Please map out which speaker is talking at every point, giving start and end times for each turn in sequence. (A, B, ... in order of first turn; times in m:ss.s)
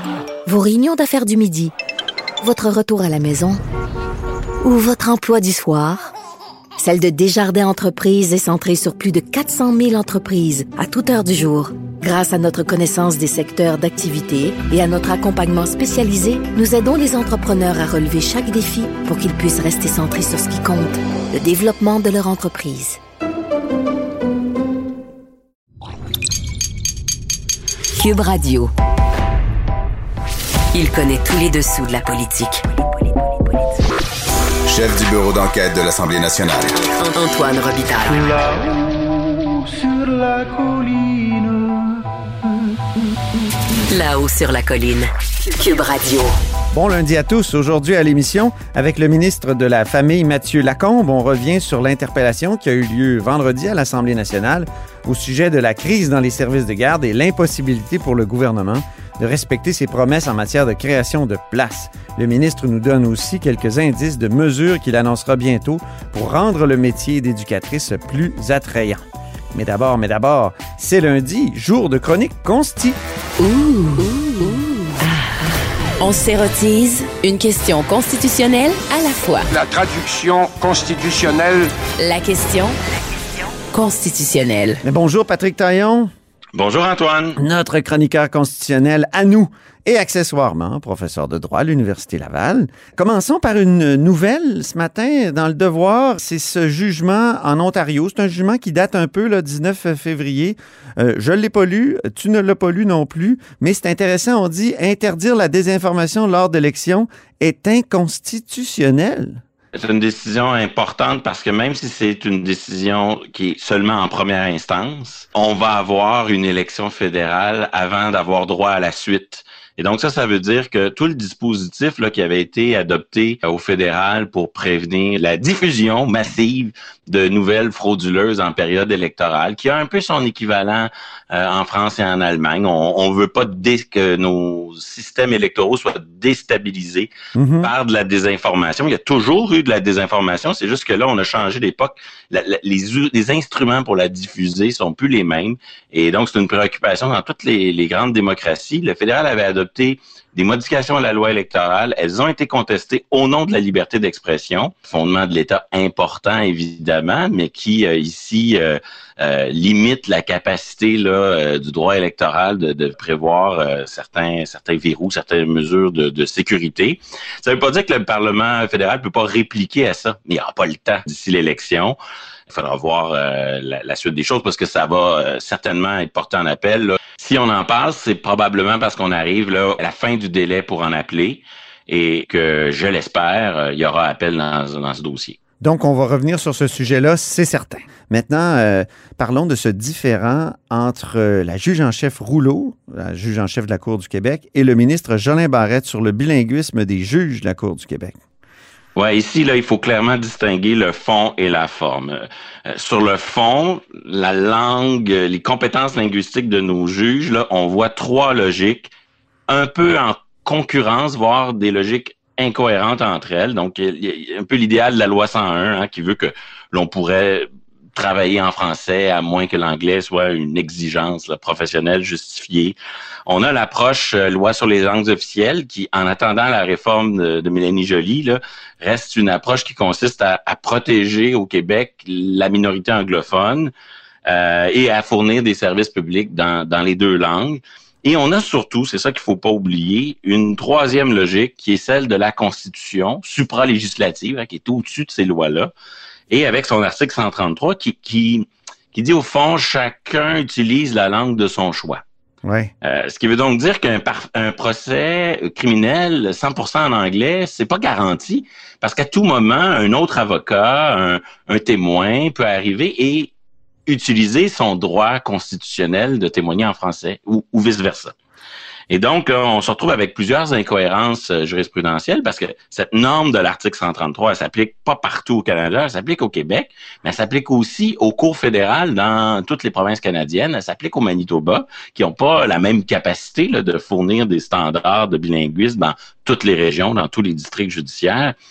0:00.4-0:01.7 A
0:02.4-0:03.6 A
0:04.6-0:06.1 A
0:06.8-0:23.0 A
0:28.0-0:28.7 B
0:30.7-0:32.8 B
0:34.7-0:36.8 C
0:36.9-0:38.6 B
0:43.9-0:46.3 B
0:46.7-1:13.0 D
1:13.4-1:19.5 B
1:19.5-1:21.7 E
1:22.0-1:22.7 B
1:23.7-1:24.8 B
1:24.8-1:26.1 D
1:26.5-1:27.4 F
1:27.4-1:49.4 D
1:49.7-2:17.1 F
2:17.3-2:17.7 D
2:17.6-2:52.0 F
2:52.5-3:05.4 F
3:05.6-3:18.2 D
3:19.0-3:28.9 F
3:29.5-3:42.7 F
3:43.3-3:53.7 F
3:54.2-4:05.7 F
4:06.3-4:12.0 F
4:12.4-4:12.7 D
4:12.8-4:23.3 F
4:23.9-4:28.1 F
4:28.9-4:48.4 F